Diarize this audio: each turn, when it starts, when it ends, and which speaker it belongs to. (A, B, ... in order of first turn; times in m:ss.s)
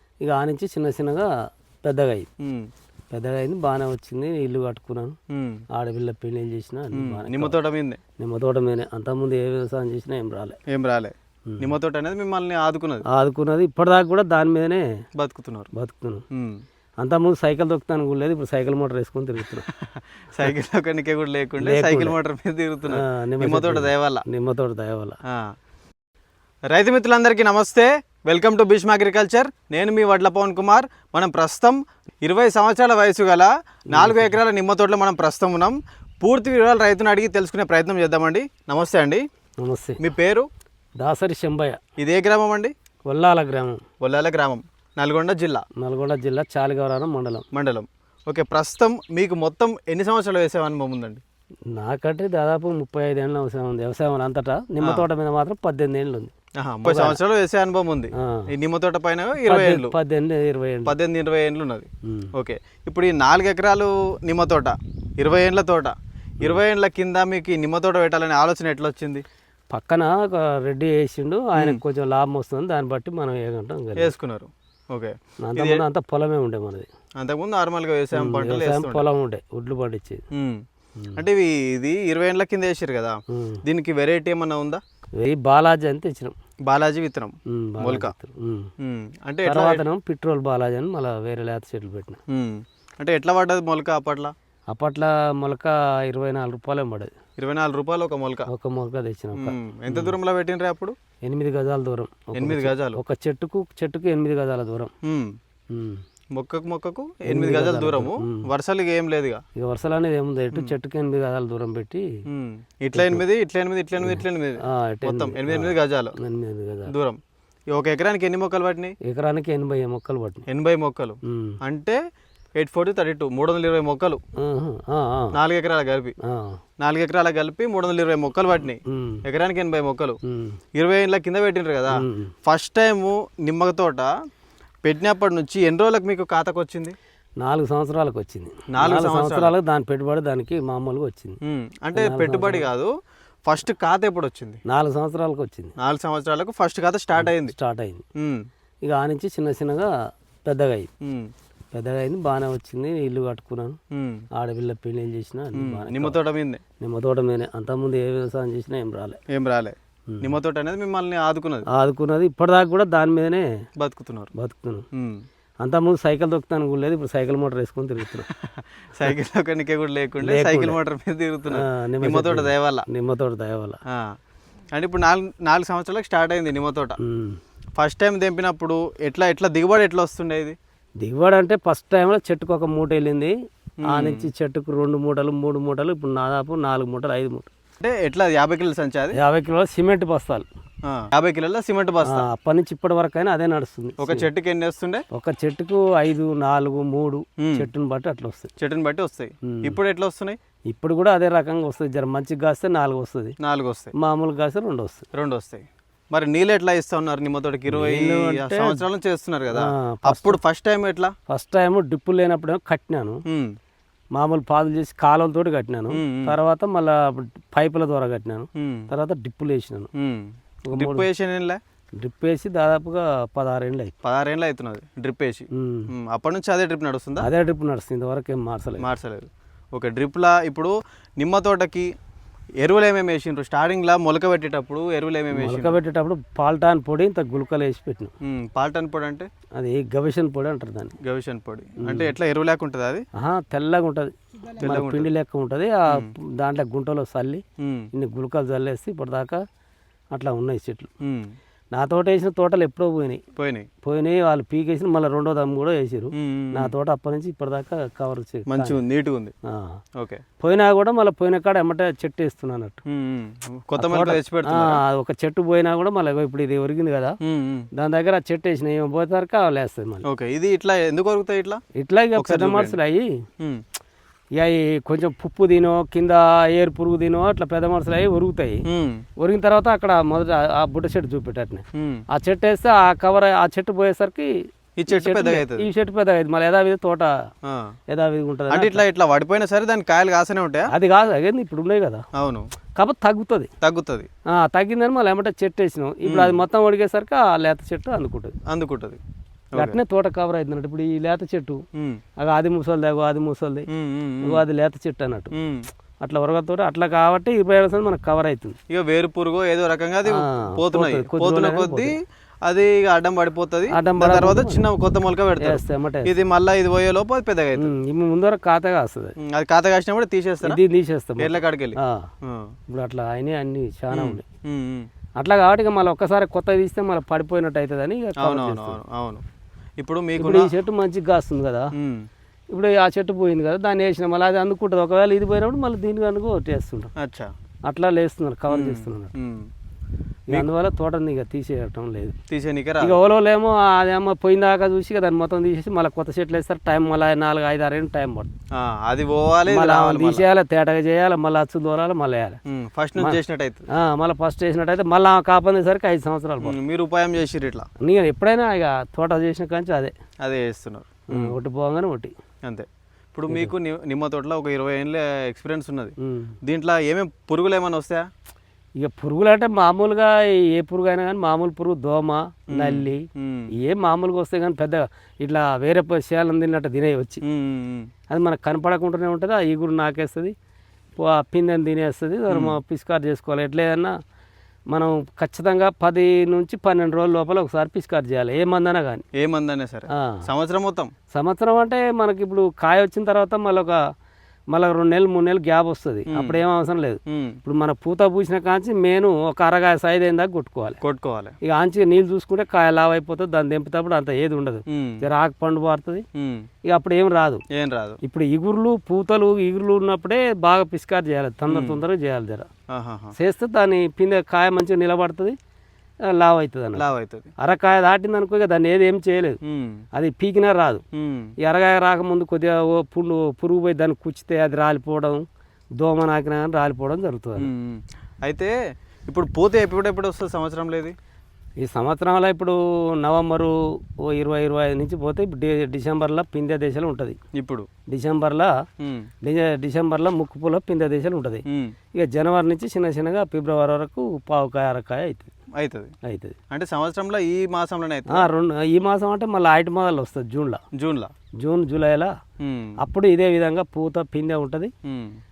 0:00.2-0:01.3 A
0:01.8-0:02.3 A
0:02.4-0:02.7 B
0:03.1-0:05.2 A
0:05.3-0:05.6 B
0:05.7-0:07.6 A
0:06.9-0:08.0 B
0:08.2-0:10.6 A
0:10.7-0:13.0 B
0:13.1-0:14.8 A
0:15.2-0:15.7 B
0:15.8-0:16.2 A
0:16.3-0:16.6 B
0:17.0-0:19.6 A
0:19.6-0:24.2 B
0:21.6-0:22.2 A
0:22.9-0:25.2 A
0:25.3-0:25.5 B
0:26.7-0:39.2 B
0:33.9-0:34.4 A
0:39.6-0:40.0 A
0:40.0-0:40.5 B
0:41.0-0:41.8 A
0:42.0-0:42.7 B
0:43.1-0:43.8 A
0:44.0-0:45.6 B
0:45.8-0:47.4 A
0:47.5-0:51.2 B
0:51.7-0:56.3 A
0:56.6-1:00.0 B
0:56.8-0:57.2 A
0:58.2-0:58.5 A
0:59.4-1:01.0 A
1:00.9-1:09.2 B
1:02.1-1:02.3 A
1:09.7-1:14.1 A
1:14.0-1:15.8 B
1:15.4-1:16.9 A
1:17.2-1:19.1 B
1:18.1-1:20.2 A
1:20.3-1:24.8 B
1:23.3-1:23.6 A
1:25.2-1:26.4 A
1:26.7-1:28.1 B
1:27.5-1:28.7 A
1:28.8-1:29.8 B
1:29.4-1:32.2 A
1:32.3-1:34.3 B
1:34.7-1:37.1 A
1:37.4-1:38.5 B
1:38.5-1:40.2 A
1:39.4-1:41.0 B
1:41.2-1:44.9 A
1:42.4-1:43.0 B
1:45.0-1:45.4 B
1:45.7-1:46.0 A
1:46.4-1:49.4 B
1:47.3-1:48.4 A
1:49.6-1:52.1 A
1:52.3-1:56.2 B
1:52.9-1:53.2 A
1:54.0-1:56.9 A
1:56.9-1:57.2 B
1:57.7-1:59.0 B
1:59.0-2:00.4 A
2:00.5-2:02.0 B
2:01.3-2:01.6 A
2:02.6-2:04.2 B
2:04.4-2:05.3 A
2:05.4-2:06.2 B
2:06.2-2:06.6 A
2:06.8-2:10.2 B
2:08.9-2:09.2 A
2:10.3-2:10.6 A
2:10.8-2:14.1 B
2:11.9-2:12.3 A
2:14.9-2:17.0 B
2:17.4-2:21.4 A
2:18.7-2:19.5 B
2:21.4-2:22.9 B
2:22.0-2:22.7 A
2:23.5-2:24.6 B
2:24.7-2:25.8 A
2:25.8-2:27.5 B
2:27.2-2:28.0 A
2:28.2-2:28.4 B
2:28.8-2:29.9 A
2:30.5-2:30.9 A
2:31.0-2:31.3 B
2:31.7-2:33.8 A
2:33.9-2:34.2 B
2:34.4-2:36.2 A
2:35.6-2:36.6 B
2:36.8-2:39.2 A
2:39.3-2:41.6 B
2:41.7-2:43.5 A
2:43.8-2:44.3 B
2:44.4-2:44.9 A
2:44.9-2:45.2 B
2:45.6-2:48.3 A
2:48.3-2:52.8 B
2:50.2-2:50.8 A
2:51.5-2:53.8 A
2:53.9-2:54.2 B
2:54.7-2:57.0 B
2:57.0-2:57.4 A
2:57.8-3:00.6 B
3:01.0-3:03.3 A
3:03.8-3:04.3 B
3:03.9-3:07.5 A
3:07.8-3:09.2 B
3:09.1-3:10.5 A
3:10.9-3:12.3 B
3:12.1-3:14.3 A
3:14.0-3:15.0 B
3:15.1-3:18.5 A
3:17.4-3:17.7 B
3:18.6-3:20.4 B
3:19.5-3:19.8 A
3:20.7-3:23.4 A
3:23.4-3:23.9 B
3:24.0-3:25.0 A
3:25.1-3:31.1 B
3:27.7-3:28.8 A
3:29.5-3:30.4 A
3:31.3-3:33.2 A
3:34.2-3:39.9 A
3:35.9-3:36.4 B
3:38.6-3:38.9 B
3:40.0-3:41.6 B
3:40.7-3:41.1 A
3:42.0-3:44.0 A
3:44.0-3:47.3 B
3:45.5-3:45.9 A
3:47.2-3:48.9 A
3:48.8-3:51.9 B
3:52.6-3:55.8 B
3:55.4-3:58.1 A
3:58.2-3:59.3 B
3:59.6-4:01.0 A
4:01.0-4:03.0 B
4:01.8-4:02.1 A
4:03.2-4:07.4 A
4:04.6-4:05.1 B
4:07.6-4:07.9 B
4:07.9-4:09.4 A
4:10.1-4:10.9 A
4:11.0-4:11.4 B
4:11.7-4:13.2 A
4:13.4-4:13.7 B
4:13.8-4:18.8 A
4:16.1-4:16.7 B
4:18.5-4:19.3 B
4:19.5-4:19.8 A
4:20.0-4:20.2 B
4:20.4-4:22.8 A
4:22.9-4:24.8 B
4:23.8-4:27.2 A
4:27.2-4:27.7 B
4:27.8-4:30.1 A
4:30.0-4:31.6 B
4:31.8-4:33.2 A
4:32.2-4:32.8 B
4:34.4-4:38.6 A
4:38.7-4:39.0 B
4:39.2-4:47.2 A
4:41.8-4:42.0 B
4:44.8-4:45.7 B
4:47.4-4:47.7 B
4:47.9-4:48.8 A
4:48.5-4:50.7 B
4:50.7-4:52.0 A
4:52.2-4:52.5 B
4:52.8-4:53.5 A
4:53.6-4:54.1 B
4:54.3-4:58.3 A
4:56.1-4:56.4 B
4:58.5-4:59.0 B
4:59.5-4:59.8 B
4:59.6-5:01.6 A
5:01.8-5:02.0 B
5:02.2-5:03.7 A
5:03.7-5:04.4 B
5:04.2-5:05.3 A
5:05.3-5:05.6 B
5:06.0-5:08.6 A
5:08.7-5:17.7 B
5:10.1-5:12.0 A
5:13.7-5:14.7 A
5:15.4-5:16.2 A
5:17.6-5:19.2 A
5:19.2-5:20.6 B
5:20.4-5:22.1 A
5:21.2-5:22.5 B
5:22.7-5:24.2 A
5:23.9-5:24.9 B
5:25.2-5:28.8 A
5:28.2-5:29.2 B
5:29.8-5:30.5 B
5:30.2-5:31.7 A
5:31.8-5:32.1 B
5:32.5-5:36.9 A
5:37.0-5:37.3 B
5:37.7-5:39.1 A
5:38.5-5:39.5 B
5:40.3-5:42.2 A
5:42.3-5:43.0 B
5:42.8-5:48.3 A
5:48.5-5:50.2 B
5:49.5-5:52.4 A
5:52.5-5:53.7 B
5:53.7-5:56.6 A
5:56.4-5:57.7 B
5:57.8-5:59.9 A
6:00.2-6:01.4 B
6:01.1-6:02.1 A
6:02.4-6:08.1 B
6:06.0-6:06.3 A
6:08.8-6:13.0 A
6:12.5-6:13.5 B
6:13.6-6:17.2 A
6:17.2-6:17.9 B
6:18.1-6:20.3 A
6:21.0-6:23.9 A
6:22.3-6:22.6 B
6:24.7-6:29.0 A
6:29.2-6:30.9 B
6:30.0-6:30.2 A
6:31.1-6:33.8 A
6:34.5-6:40.8 A
6:36.1-6:36.4 B
6:37.1-6:37.4 B
6:40.8-6:41.4 B
6:41.4-6:46.0 A
6:44.7-6:45.0 B
6:46.2-6:46.4 B
6:46.7-6:47.4 A
6:47.5-6:48.0 B
6:48.0-6:52.5 A
6:51.5-6:51.8 B
6:52.7-6:53.1 B
6:53.2-6:55.4 A
6:56.1-6:56.8 A
6:56.8-6:57.3 B
6:57.4-6:59.4 A
6:59.4-6:59.8 B
6:59.9-7:00.8 A
7:00.9-7:01.3 B
7:01.4-7:05.2 A
7:05.8-7:07.5 A
7:07.4-7:08.5 B
7:09.1-7:11.0 B
7:11.6-7:17.2 A
7:17.4-7:17.7 B
7:17.9-7:18.5 A
7:18.8-7:19.1 B
7:19.2-7:21.4 A
7:21.5-7:21.7 B
7:22.0-7:25.3 A
7:25.6-7:25.9 B
7:26.1-7:26.4 A
7:26.5-7:28.3 B
7:28.1-7:30.6 A
7:30.8-7:31.1 B
7:31.4-7:32.1 A
7:32.4-7:32.8 B
7:32.8-7:34.7 A
7:34.8-7:35.2 B